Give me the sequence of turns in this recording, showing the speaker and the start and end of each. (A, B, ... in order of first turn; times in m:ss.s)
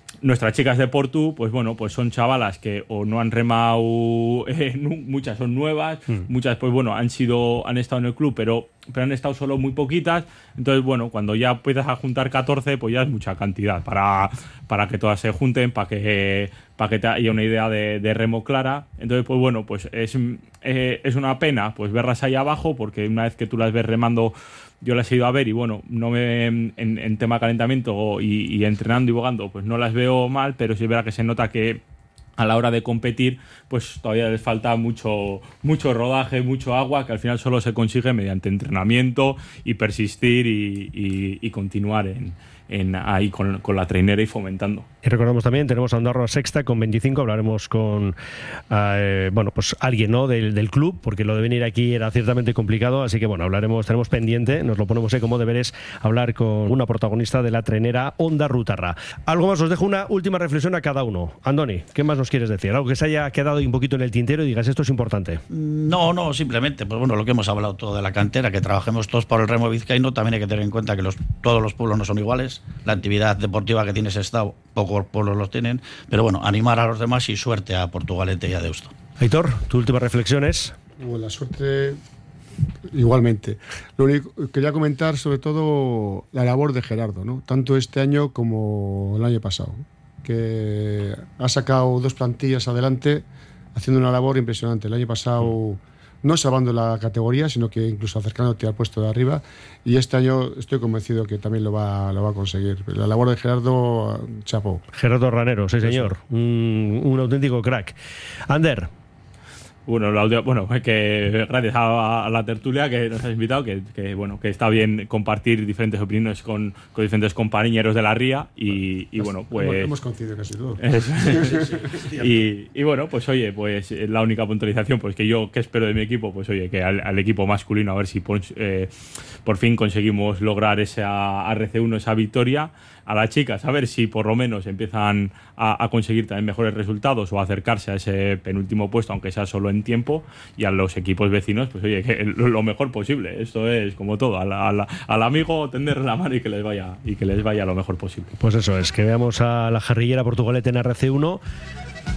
0:00.2-0:31.8 A
0:32.4-0:44.9 A
0:45.0-0:48.2 B
0:48.7-1:05.4 B
1:05.5-1:18.9 C
1:19.2-1:20.8 B
1:21.0-1:22.0 D
1:22.9-1:44.8 D
1:44.9-1:48.0 B
1:48.5-1:48.9 B
1:49.9-1:59.9 A
1:59.2-2:02.2 D
2:00.8-2:08.9 A
2:09.4-2:28.3 A
2:28.4-2:31.4 B